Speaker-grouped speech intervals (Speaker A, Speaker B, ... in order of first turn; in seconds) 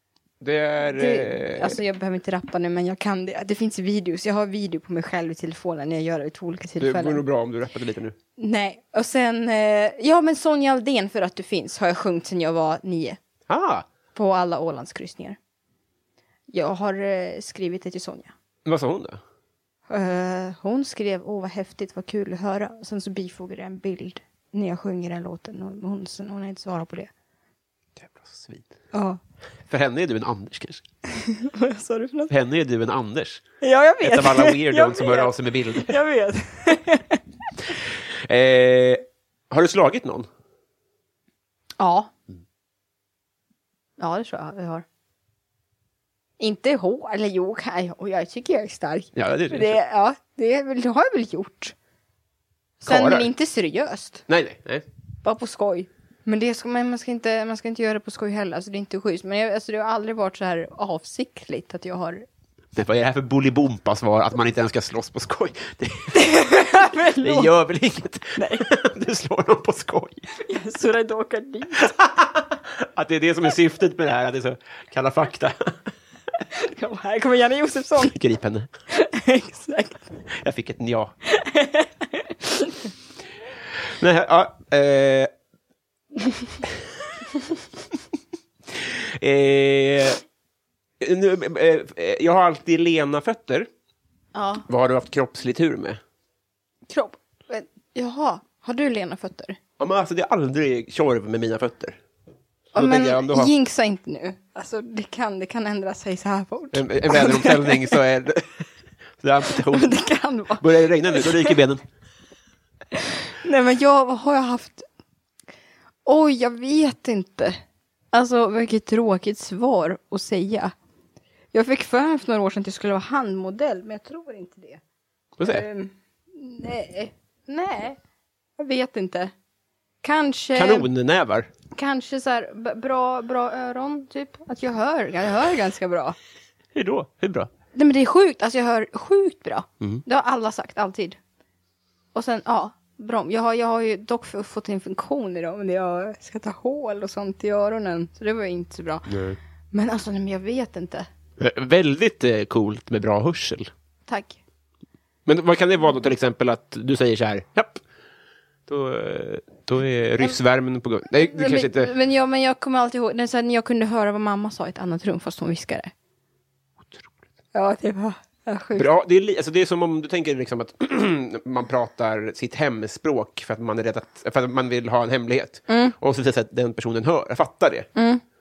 Speaker A: 0.4-1.8, 6.8-8.2, 13.5-13.9, 18.6-19.2, 28.0-28.7, 29.7-30.8, 32.3-33.5, 34.0-36.0, 37.9-40.3, 49.1-49.8, 52.8-53.3, 54.3-54.8, 62.8-66.4, 67.2-70.2, 72.0-75.8, 78.0-78.7, 80.3-81.1, 84.0-85.3, 88.7-90.2, 91.0-93.7, 94.7-96.0, 99.8-102.0, 102.7-103.5, 106.7-108.7, 109.2-109.9, 110.6-111.8, 125.4-125.7, 130.6-131.5, 136.7-137.5, 149.1-149.4, 151.4-153.7, 155.3-157.8, 158.7-161.9, 166.9-167.1, 168.8-177.9
Speaker B: 0.9-7.2, 8.4-13.2, 14.1-15.4, 16.5-18.3, 19.9-27.1, 28.9-29.2, 31.1-32.3, 33.6-37.2, 41.8-42.1, 44.0-44.9, 46.4-51.8, 52.8-54.2, 55.2-62.3, 66.1-67.5, 68.4-68.7, 70.3-72.0, 76.5-78.2, 78.9-80.0, 81.3-82.8, 94.3-94.7, 96.9-99.6, 102.8-108.0, 109.5-111.6, 112.9-114.9, 116.0-117.6, 118.1-120.7, 121.5-124.8, 125.4-128.0, 128.6-129.3, 130.0-130.9, 131.7-136.2, 137.7-141.2, 142.1-149.2, 149.7-151.1, 154.1-154.4, 161.1-165.9, 167.5-168.9, 175.7-175.9, 178.0-178.2